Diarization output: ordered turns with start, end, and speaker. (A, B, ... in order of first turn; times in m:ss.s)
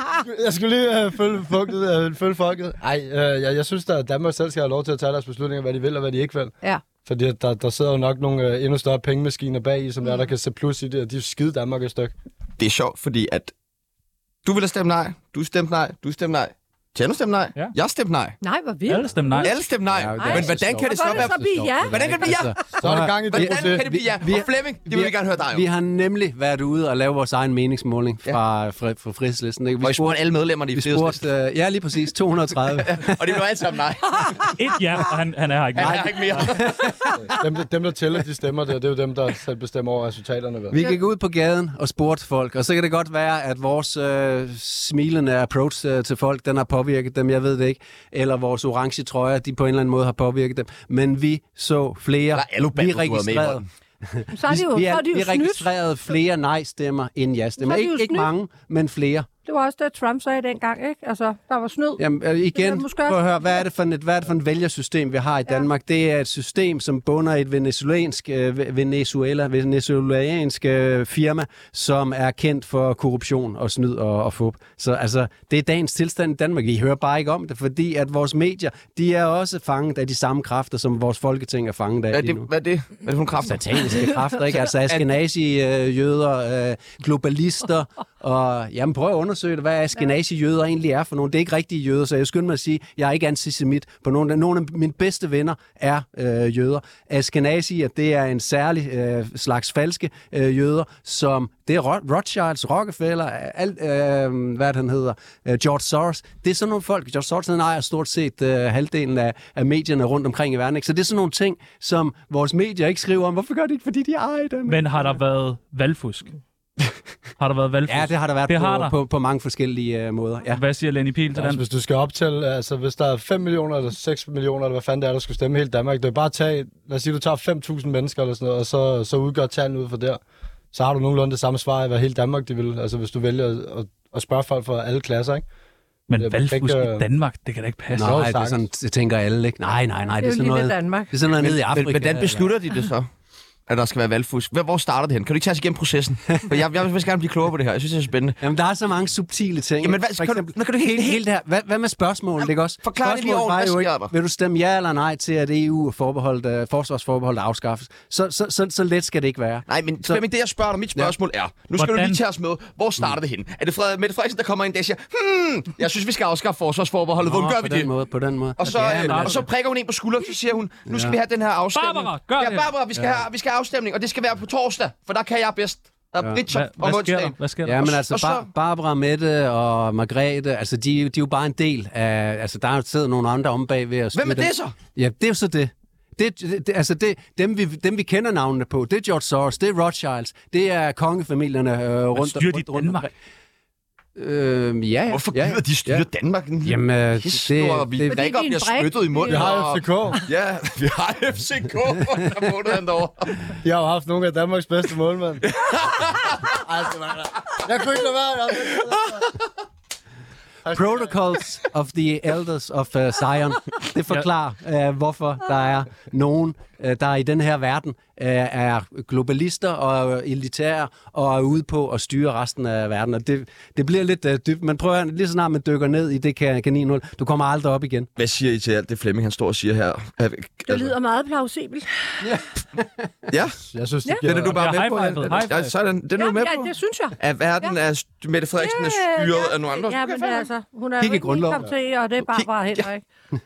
0:00.2-0:12.1 A
0:12.6-0:13.5 B
0:14.4-0:18.4 B
0:18.4-0:19.6 C
0:18.9-0:19.5 D
0:19.4-0:25.6 B
0:19.9-0:30.2 E
0:20.2-0:22.6 C
0:22.8-0:23.8 A
0:29.8-0:31.2 B
0:30.7-0:33.2 E
0:32.8-0:34.5 B
0:34.6-0:36.4 D
0:35.7-0:36.8 B
0:35.8-0:37.2 E
0:37.2-0:40.8 A
0:40.7-0:59.3 E
0:52.3-0:53.6 B
0:54.3-0:55.7 C
0:57.6-0:58.3 C
0:59.4-1:03.6 C
1:02.0-1:22.5 E
1:22.1-1:25.0 B
1:23.4-1:55.0 E
1:54.7-1:56.3 D
1:57.4-1:58.9 D
1:57.9-2:00.6 E
2:00.6-2:01.6 D
2:01.3-2:10.2 A
2:10.7-2:15.4 A
2:16.1-2:18.2 D
2:16.2-2:17.1 A
2:17.9-2:22.5 E
2:18.0-2:18.6 A
2:20.2-2:21.1 C
2:21.4-2:23.1 B
2:23.7-2:28.4 B
2:28.4-2:40.2 E
2:29.8-2:31.2 B
2:32.8-2:34.1 B
2:39.7-2:47.9 B
2:41.8-2:42.2 D
2:47.2-2:49.4 E
2:48.6-2:58.5 B
2:48.6-2:49.4 D
2:50.9-2:51.2 E
2:51.7-2:52.7 D
2:53.0-2:53.2 E
2:56.5-2:57.8 D
2:57.6-3:13.1 E
3:04.1-3:04.7 B
3:12.2-3:13.1 D
3:14.2-3:16.0 E
3:15.1-3:23.4 B
3:16.6-3:18.1 E
3:18.0-3:20.2 C
3:19.3-3:20.2 A
3:23.6-3:25.5 A
3:25.5-3:26.4 B
3:26.5-3:29.3 A
3:30.6-3:31.1 A
3:30.7-3:48.1 E
3:48.2-3:50.9 B
3:50.6-3:52.4 C
3:53.3-3:53.6 B
3:53.7-3:54.6 A
3:54.2-4:00.5 B
3:54.3-3:55.7 D
3:56.2-3:57.7 C
3:58.6-4:03.0 C
4:01.0-4:01.7 E
4:02.4-4:02.8 B